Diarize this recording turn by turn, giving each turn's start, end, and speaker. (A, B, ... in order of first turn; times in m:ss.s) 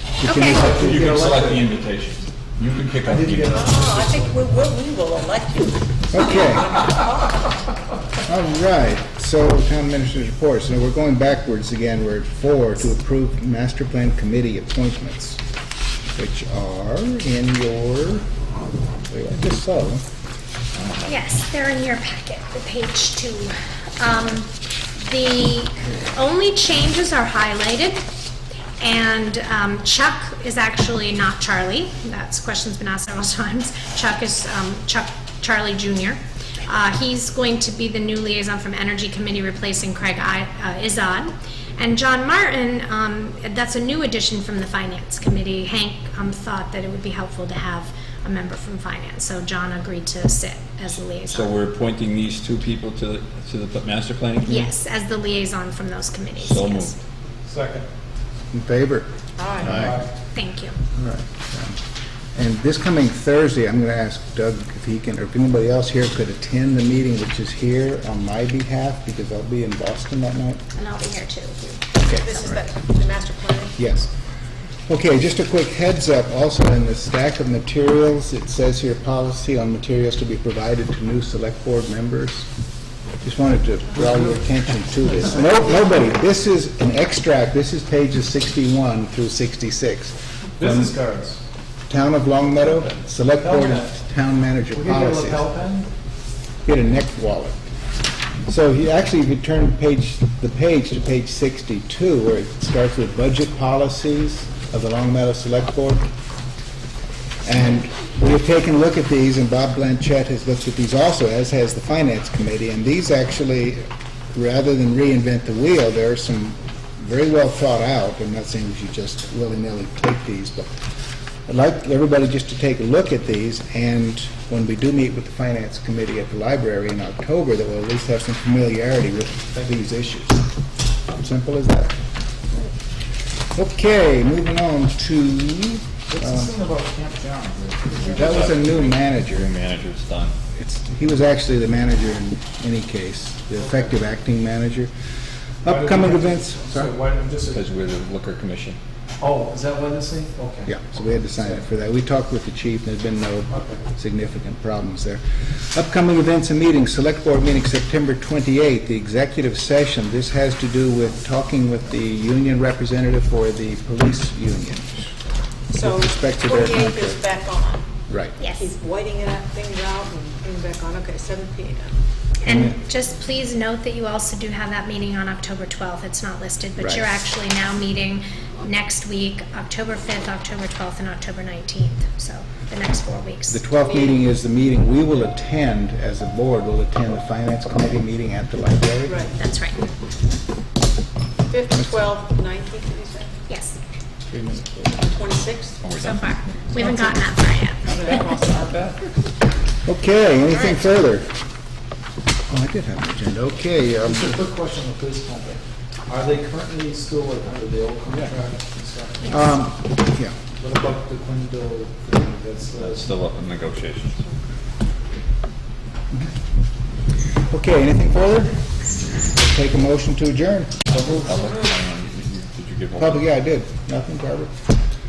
0:00.2-0:01.2 A
0:00.2-0:00.6 B
0:00.3-0:04.0 C
0:00.6-0:01.6 D
0:03.1-0:04.4 D
0:03.5-0:05.9 E
0:06.1-0:06.8 A
0:08.3-0:15.4 A
0:16.1-0:18.2 A
0:19.1-0:20.0 A
0:20.8-0:21.1 C
0:21.1-0:28.0 B
0:28.8-0:51.6 B
0:51.3-0:54.7 C
0:54.5-0:57.0 B
0:56.4-0:56.9 C
0:57.5-0:57.9 D
0:58.5-0:59.1 A
0:59.4-0:59.8 E
0:59.6-1:00.0 A
0:59.7-1:00.0 D
1:00.4-1:00.8 B
1:01.0-1:01.8 A
1:02.4-1:10.6 A
1:10.8-1:12.6 B
1:12.1-1:13.8 E
1:12.1-1:12.4 A
1:13.8-1:14.1 A
1:14.9-1:22.5 A
1:23.2-1:30.9 A
1:24.0-1:24.4 D
1:25.2-1:25.5 D
1:30.6-1:31.4 D
1:31.9-1:35.5 A
1:33.4-1:33.9 D
1:34.7-1:35.9 D
1:36.6-1:37.6 A
1:38.5-1:46.1 A
1:47.4-2:00.7 A
2:01.5-2:10.4 A
2:11.1-2:12.0 A
2:13.5-2:16.5 A
2:16.1-2:18.2 D
2:18.0-2:20.4 C
2:18.1-2:19.5 A
2:20.5-2:24.9 A
2:25.6-2:26.9 A
2:25.6-2:27.6 D
2:27.5-2:28.8 C
2:29.2-2:30.8 D
2:30.7-2:45.1 A
2:33.5-2:33.8 D
2:45.7-2:47.8 E
2:45.8-2:47.2 A
2:48.1-2:48.4 A
2:48.4-2:48.7 B
2:48.6-2:51.9 E
2:52.4-3:03.6 B
2:52.5-2:52.7 A
2:56.8-2:57.1 A
3:03.5-3:09.3 A
3:03.8-3:04.2 E
3:09.1-3:09.3 E
3:09.4-3:09.9 B
3:11.5-3:13.4 E
3:13.5-3:13.8 B
3:14.3-3:14.8 A
3:14.9-3:15.8 E
3:15.8-3:16.8 C
3:15.9-3:18.2 B
3:17.8-3:19.0 E
3:19.8-3:21.3 A
3:20.5-3:20.8 E
3:22.5-3:24.4 A
3:24.0-3:29.5 D
3:29.3-3:30.4 A
3:30.6-3:33.1 D
3:32.8-3:34.2 C
3:37.5-3:38.6 A
3:39.2-3:41.2 A
3:41.1-3:43.3 C
3:43.0-3:44.5 A